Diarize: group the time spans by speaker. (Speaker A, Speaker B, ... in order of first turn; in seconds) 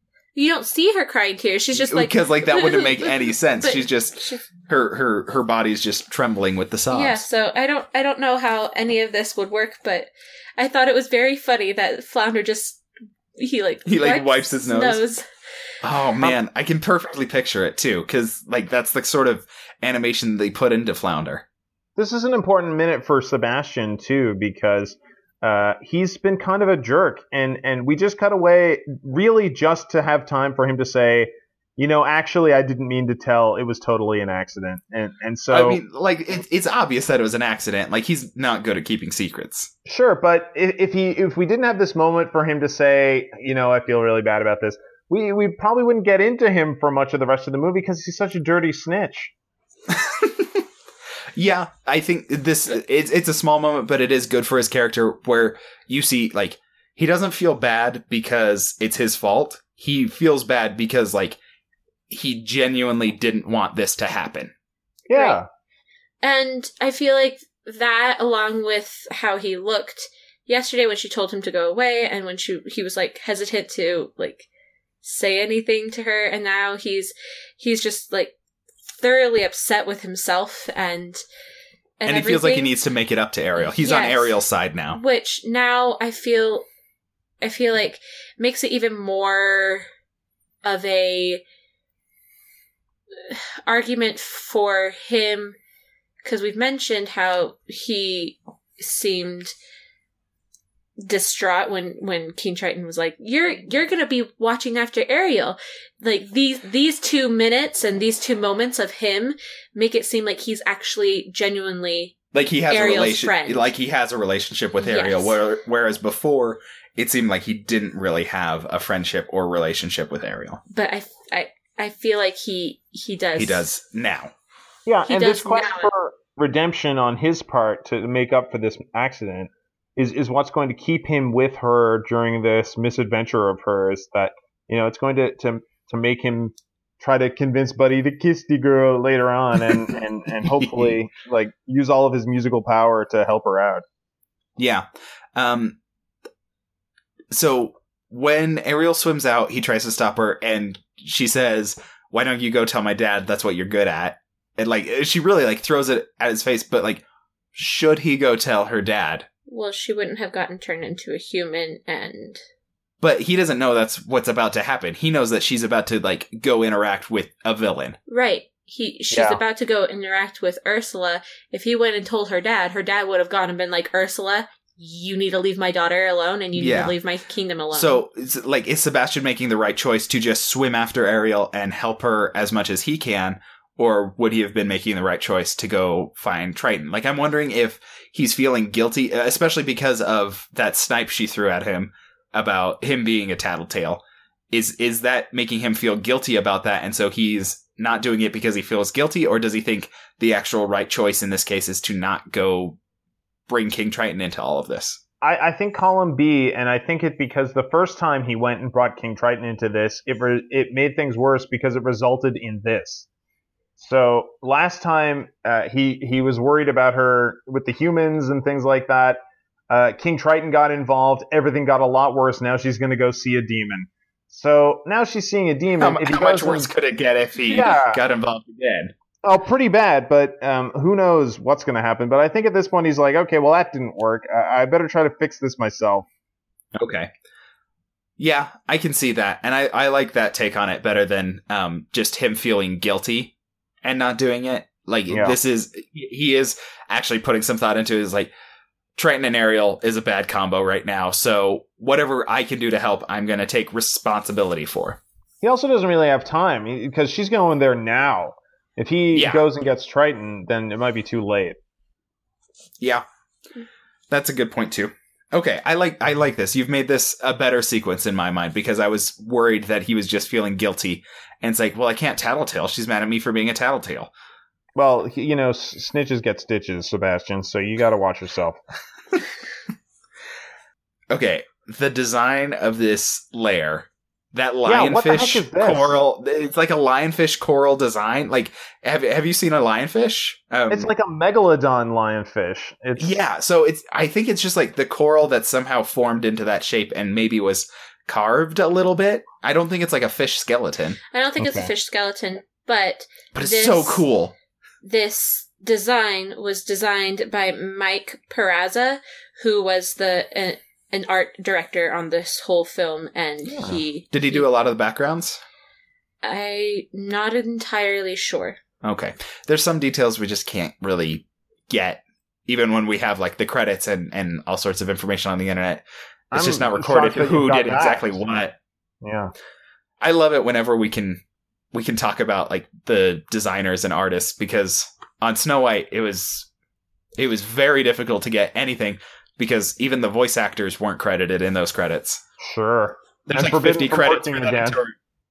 Speaker A: 0.3-4.5, 6.9-12.8, 13.3-15.2, 65.1-65.4, 66.2-74.5, 75.0-78.3, 79.0-81.2, 82.0-82.7, 83.6-84.4, 84.9-86.7, 87.4-89.8, 90.6-91.4, 93.2-95.6, 96.2-99.5, 101.0-112.1, 112.7-113.7, 114.8-115.4, 120.7-123.7, 125.0-125.9, 159.5-162.4, 168.1-178.0, 301.1-304.0, 304.8-314.5, 316.2-318.6
Speaker B: 1.7-7.2, 13.8-15.0, 15.8-21.4, 35.5-39.7, 50.0-50.6, 51.3-61.4, 62.1-64.5, 82.0-85.0, 112.3-120.6, 123.3-124.3, 140.4-141.0, 144.6-144.8, 145.3-145.8, 147.3-157.0, 157.5-159.3, 163.0-168.0, 176.6-176.9, 177.7-202.8, 203.5-205.0, 225.8-228.9, 236.8-237.1, 238.2-248.3, 248.9-255.0, 259.1-259.5, 262.8-263.0, 264.1-274.1, 281.1-290.9, 292.9-301.0, 303.3-304.3, 314.1-315.4, 318.8-328.5, 330.0-331.2, 331.7-336.5, 337.2-342.2, 343.3-344.9
Speaker C: 21.9-35.8, 39.9-49.3, 65.1-65.5, 124.8-143.8, 169.1-169.4, 205.2-213.1, 213.8-226.7, 227.4-228.0, 229.2-236.1, 245.1-245.4, 255.4-261.6, 274.8-278.6, 284.6-286.0, 290.7-293.1, 301.4-301.7, 313.5-313.8, 326.3-328.5, 329.0-329.3, 342.4-344.8